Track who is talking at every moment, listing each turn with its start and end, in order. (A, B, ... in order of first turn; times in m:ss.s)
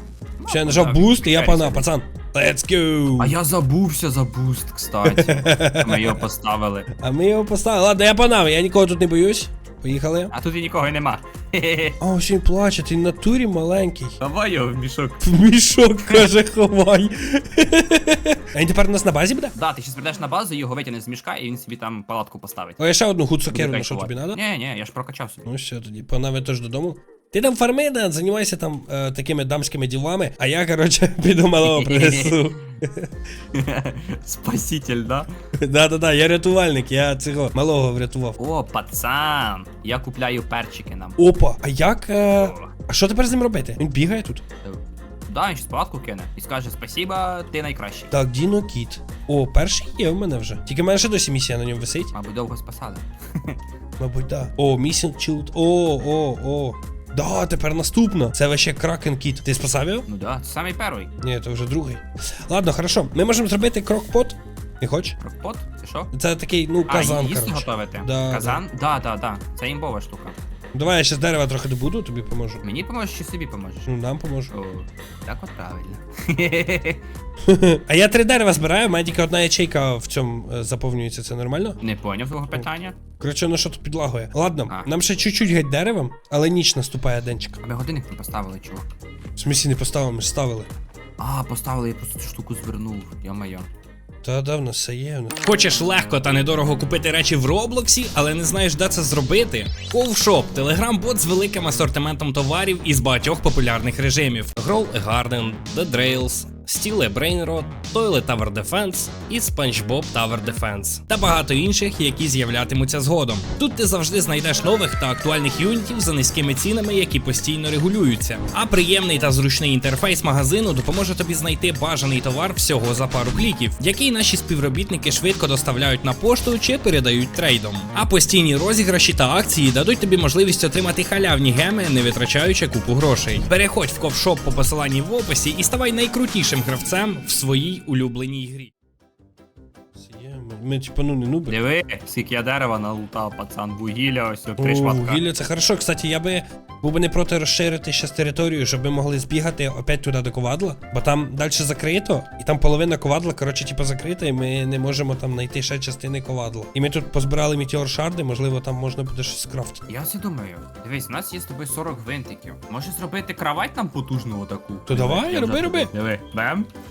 0:00.4-0:01.9 A
0:00.5-0:03.4 B
0:03.2-0:06.9 A
0:05.0-0:06.2 B
0:07.0-0:10.3 B
0:10.3-0:12.0 A
0:12.0-0:14.2 B
0:14.2-0:15.2 A
0:15.2-0:19.6 B
0:19.5-0:22.8 A
0:22.8-0:24.4 B
0:23.5-0:25.4 A
0:25.4-0:33.1 B
0:31.6-0:32.6 A
0:33.5-0:35.3 A
0:35.5-0:38.4 B
0:38.4-0:41.2 A
0:41.2-0:44.4 B
0:42.3-0:42.7 A
0:44.6-0:48.1 A
0:48.1-0:52.1 B
0:52.1-0:53.6 A
0:54.0-1:00.0 B
1:00.0-1:01.1 A
1:01.2-1:05.2 B
1:05.2-1:06.1 A
1:06.1-1:08.6 B
1:06.9-1:10.4 A
1:10.7-1:12.6 B
1:12.6-1:13.9 A
1:13.9-1:14.5 B
1:14.5-1:17.0 A
1:17.4-1:21.8 B
1:21.8-1:23.0 A
1:23.2-1:27.6 B
1:27.6-1:28.9 A
1:29.4-1:30.7 B
1:31.2-1:33.7 A
1:34.2-1:35.4 B
1:35.4-2:18.7 C
2:20.0-2:21.6 B
2:21.5-2:25.2 A
2:24.6-2:39.9 B
2:39.9-2:46.7 A
2:44.9-2:45.9 B